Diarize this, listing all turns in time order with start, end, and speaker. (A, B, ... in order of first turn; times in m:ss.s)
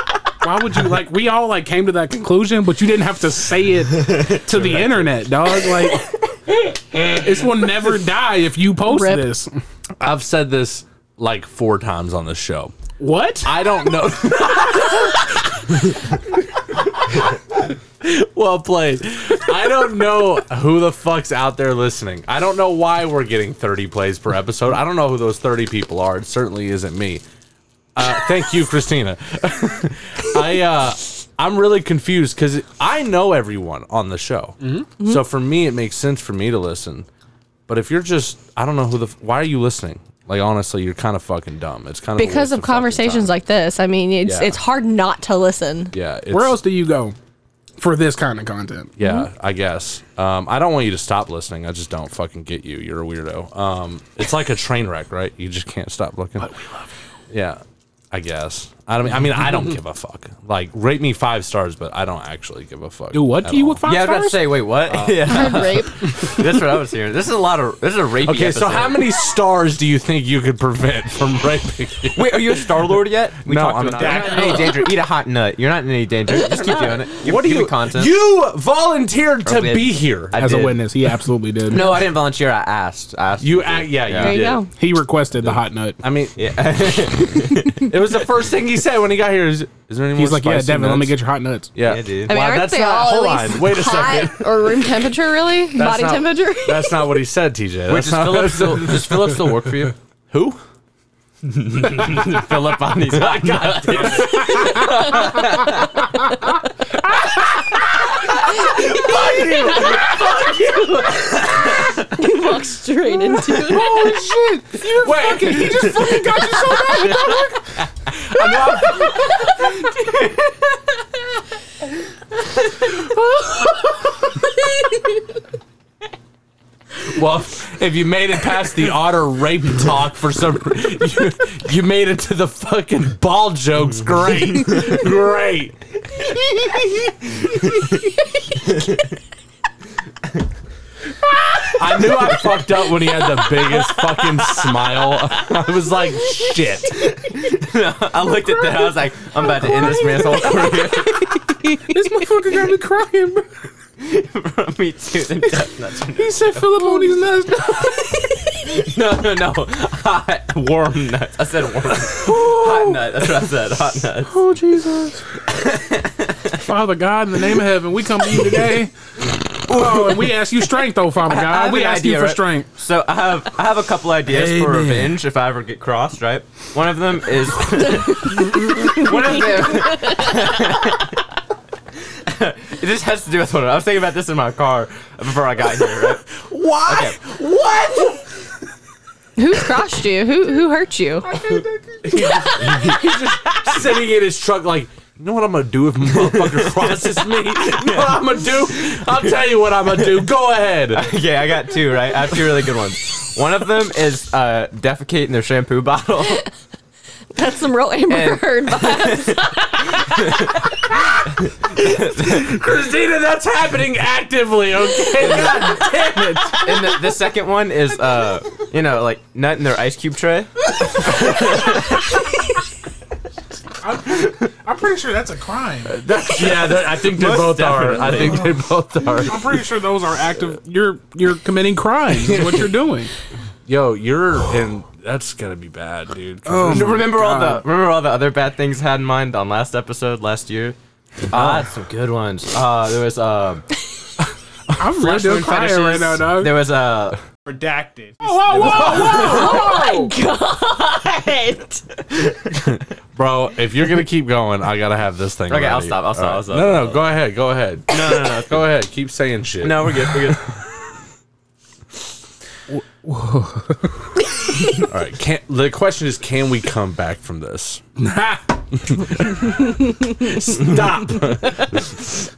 0:00.4-0:06.1 A
0:04.6-0:04.9 B
0:06.9-0:09.5 A
0:08.8-0:09.3 C
0:10.0-0:12.7 B
0:13.0-0:13.5 A
0:13.4-0:15.9 B
0:18.0-0:27.2 B
0:27.9-0:37.1 B
0:34.6-0:34.9 A
0:37.7-0:43.3 B
0:42.2-0:45.9 C
0:44.2-0:44.6 B
0:45.9-0:46.6 B
0:46.3-0:47.2 A
0:47.8-0:48.9 A
0:49.0-0:56.5 B
0:49.0-0:49.3 C
0:56.4-0:56.9 A
0:57.3-1:03.8 B
1:03.1-1:04.6 A
1:03.8-1:09.1 D
1:04.9-1:05.7 B
1:05.3-1:05.9 C
1:08.2-1:12.6 B
1:12.1-1:18.1 D
1:13.4-1:14.9 B
1:14.0-1:14.8 E
1:16.4-1:20.7 B
1:19.4-1:20.8 D
1:20.3-1:22.1 A
1:21.7-1:24.4 D
1:23.4-1:24.7 B
1:24.2-1:24.7 C
1:24.7-1:26.0 A
1:25.4-1:26.4 B
1:26.4-1:27.8 D
1:27.7-1:31.2 B
1:30.2-1:31.7 A
1:31.7-1:34.8 B
1:31.8-1:32.3 D
1:32.3-1:37.0 C
1:35.7-1:39.4 B
1:37.9-1:39.9 D
1:40.3-1:40.6 B
1:41.5-1:46.0 D
1:43.2-1:45.4 B
1:48.4-1:52.1 D
1:52.1-1:54.0 C
1:53.5-1:57.7 A
1:55.0-1:56.2 B
1:56.0-1:57.0 D
1:58.1-1:59.4 B
1:59.8-2:00.6 D
2:07.0-2:16.9 B
2:18.6-2:19.1 D
2:21.7-2:27.1 B
2:22.0-2:22.6 D
2:23.6-2:24.8 D
2:27.0-2:31.4 D
2:29.7-2:30.4 A
2:31.8-2:33.4 A
2:34.0-2:37.0 D
2:36.2-2:38.1 A
2:38.7-2:44.4 D
2:42.1-2:43.1 A
2:44.3-2:45.3 A
2:45.5-2:46.5 D
2:46.5-2:48.9 A
2:49.6-2:52.7 A
2:49.7-3:01.2 D
2:54.2-2:55.2 A
2:58.3-2:59.2 C
2:59.7-3:00.6 C
3:02.2-3:06.4 D
3:06.3-3:08.1 B
3:06.9-3:07.4 D
3:09.4-3:11.3 C
3:11.2-3:12.3 A
3:12.0-3:21.1 B
3:16.1-3:20.3 D
3:20.9-3:26.4 D
3:27.3-3:30.4 C
3:28.1-3:30.6 D
3:31.2-3:32.6 D
3:32.1-3:37.0 B
3:35.2-3:35.9 D
3:36.5-3:42.2 D
3:43.8-3:45.9 A
3:45.8-3:49.6 B
3:46.3-3:48.6 D
3:49.2-3:53.1 A
3:53.6-3:57.0 B
3:56.4-3:57.6 A
3:56.7-4:03.6 D
4:01.3-4:01.6 B
4:04.7-4:06.6 A
4:05.0-4:07.2 D
4:07.4-4:09.2 E
4:08.2-4:10.1 A
4:08.6-4:11.8 C
4:08.7-4:09.2 D
4:12.3-4:12.6 D
4:13.2-4:20.4 B
4:15.5-4:17.2 D
4:17.9-4:18.7 D
4:19.6-4:20.5 D
4:22.7-4:24.1 A
4:24.8-4:27.8 B
4:28.0-4:29.3 A
4:28.9-4:29.4 B
4:30.0-4:31.9 B